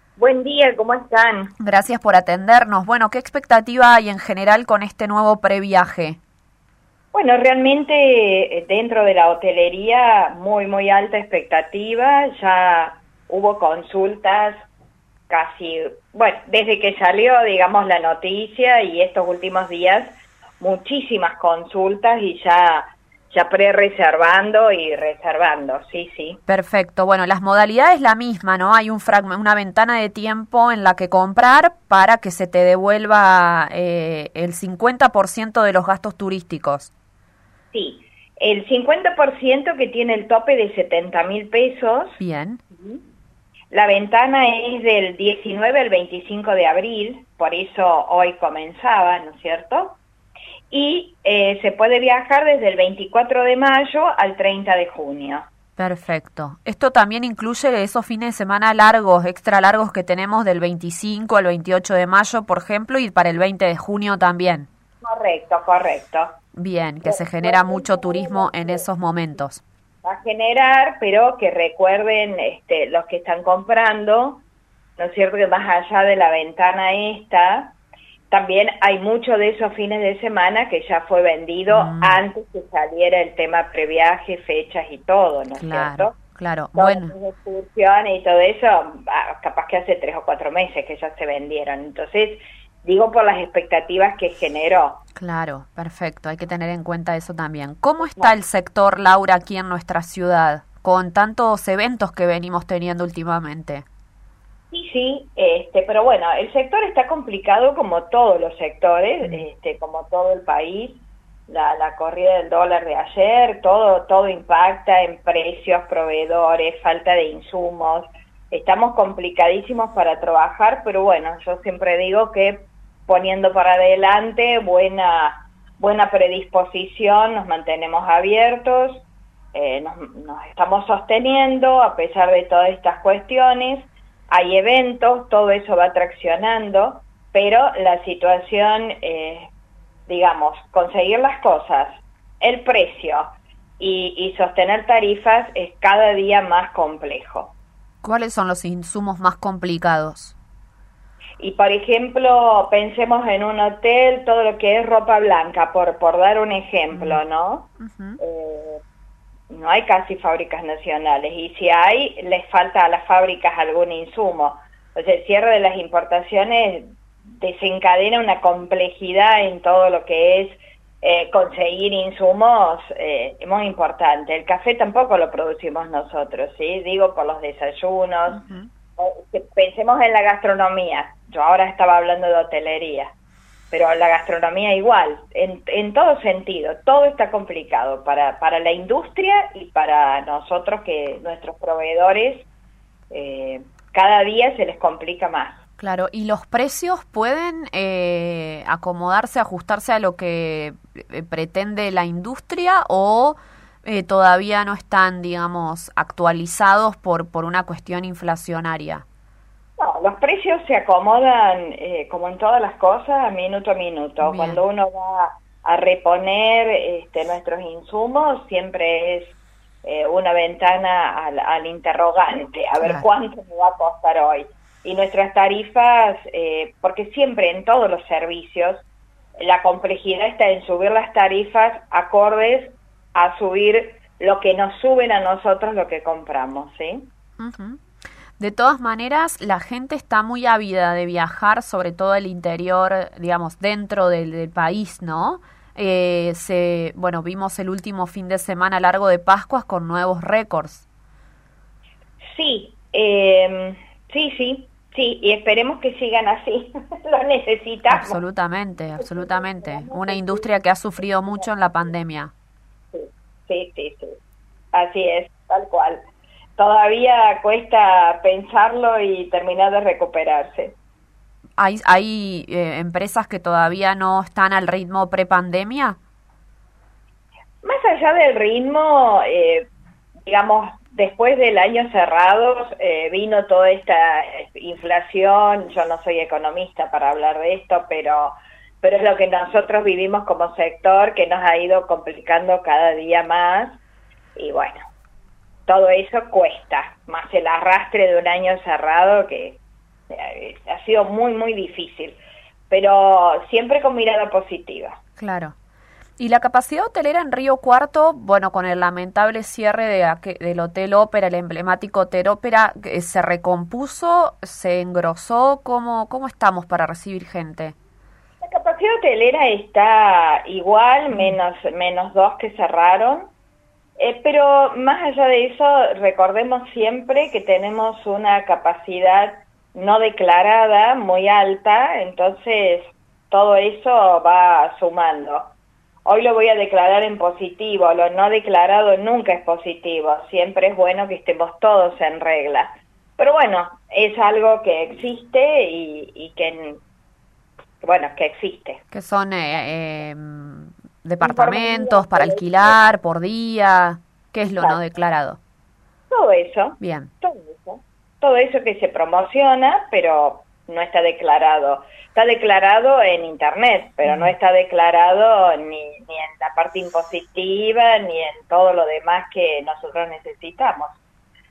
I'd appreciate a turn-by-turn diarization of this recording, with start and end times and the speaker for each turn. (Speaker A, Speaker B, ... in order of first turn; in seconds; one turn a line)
Speaker A: 0.2-1.5
Speaker B: 1.6-6.2
Speaker A: 7.1-14.6
Speaker A: 15.3-26.4
Speaker B: 26.5-36.9
Speaker A: 37.7-42.2
Speaker B: 42.2-42.6
Speaker A: 43.7-50.0
Speaker A: 50.7-55.5
Speaker B: 55.8-64.7
Speaker A: 65.0-66.3
Speaker B: 66.5-69.6
Speaker A: 67.0-68.9
Speaker A: 70.0-74.4
Speaker A: 75.0-77.8
Speaker A: 78.3-86.2
Speaker B: 81.7-82.2
Speaker B: 85.6-87.1
Speaker A: 86.8-95.0
Speaker B: 95.1-103.8
Speaker A: 98.0-98.3
Speaker A: 104.7-139.5
Speaker A: 140.1-147.5
Speaker B: 148.0-150.3
Speaker A: 151.4-158.8
Speaker B: 156.9-157.2
Speaker B: 157.8-158.2
Speaker A: 159.5-178.4
Speaker B: 178.3-178.7
Speaker A: 179.0-183.1
Speaker A: 183.7-192.5
Speaker A: 193.1-195.6
Speaker B: 195.8-209.0
Speaker A: 209.8-228.8
Speaker B: 214.2-214.6
Speaker B: 222.8-223.0
Speaker A: 229.4-237.1
Speaker B: 237.4-237.8
Speaker B: 238.4-250.8
Speaker A: 252.3-258.2
Speaker B: 257.9-262.3
Speaker A: 258.9-260.5
Speaker A: 261.0-261.5
Speaker A: 262.9-264.2
Speaker A: 264.7-266.0
Speaker A: 266.6-270.7
Speaker B: 271.6-276.0
Speaker A: 277.6-279.7
Speaker A: 280.2-293.8
Speaker A: 294.4-294.8
Speaker A: 295.7-299.6
Speaker A: 300.1-305.0
Speaker B: 305.2-305.5
Speaker B: 306.2-317.7
Speaker A: 318.4-323.3
Speaker B: 321.1-321.4
Speaker A: 324.0-346.8
Speaker A: 347.8-348.8
Speaker B: 348.9-355.4
Speaker A: 351.2-352.9
Speaker A: 356.1-370.9
Speaker B: 356.8-357.1
Speaker B: 364.0-364.3